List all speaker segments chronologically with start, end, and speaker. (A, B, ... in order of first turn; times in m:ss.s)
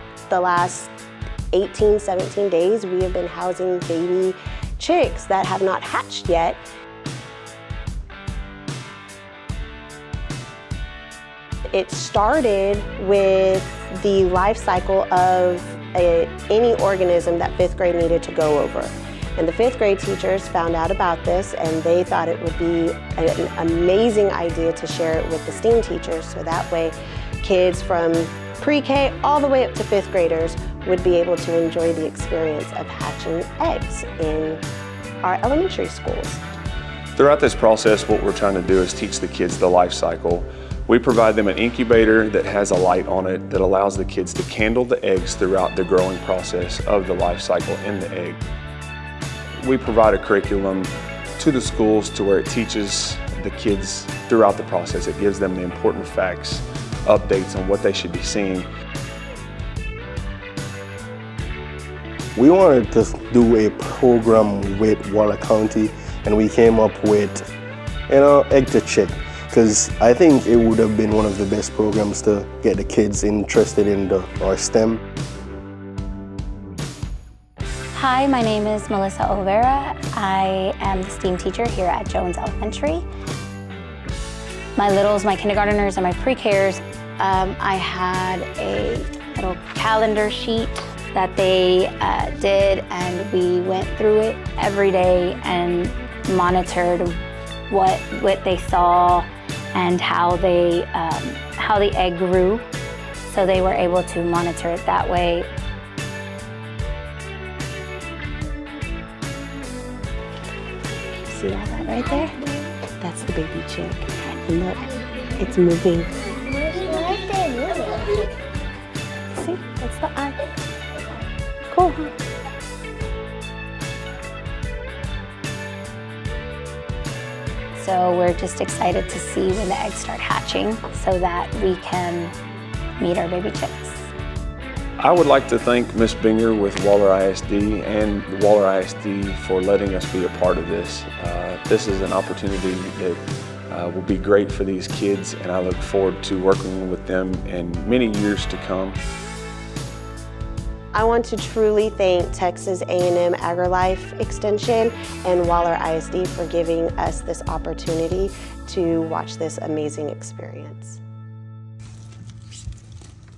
0:00.3-0:00.9 A
0:01.5-0:06.6 A
0:11.7-0:34.6 A
0:35.2-0:36.4 A
0:37.1-0:48.4 B
0:49.6-0:58.6 B
1:02.3-1:07.4 C
1:08.1-1:15.0 C
1:17.9-1:23.0 D
1:24.8-1:37.1 D
1:37.7-1:42.6 D
1:43.2-1:45.5 D
1:51.1-1:54.9 A
1:55.4-1:58.2 A
1:59.3-2:00.4 A
2:01.7-2:02.1 A
2:07.7-2:12.3 D
2:13.0-2:14.1 D
2:15.0-2:23.2 B
2:23.7-2:29.0 B
2:30.9-2:41.0 A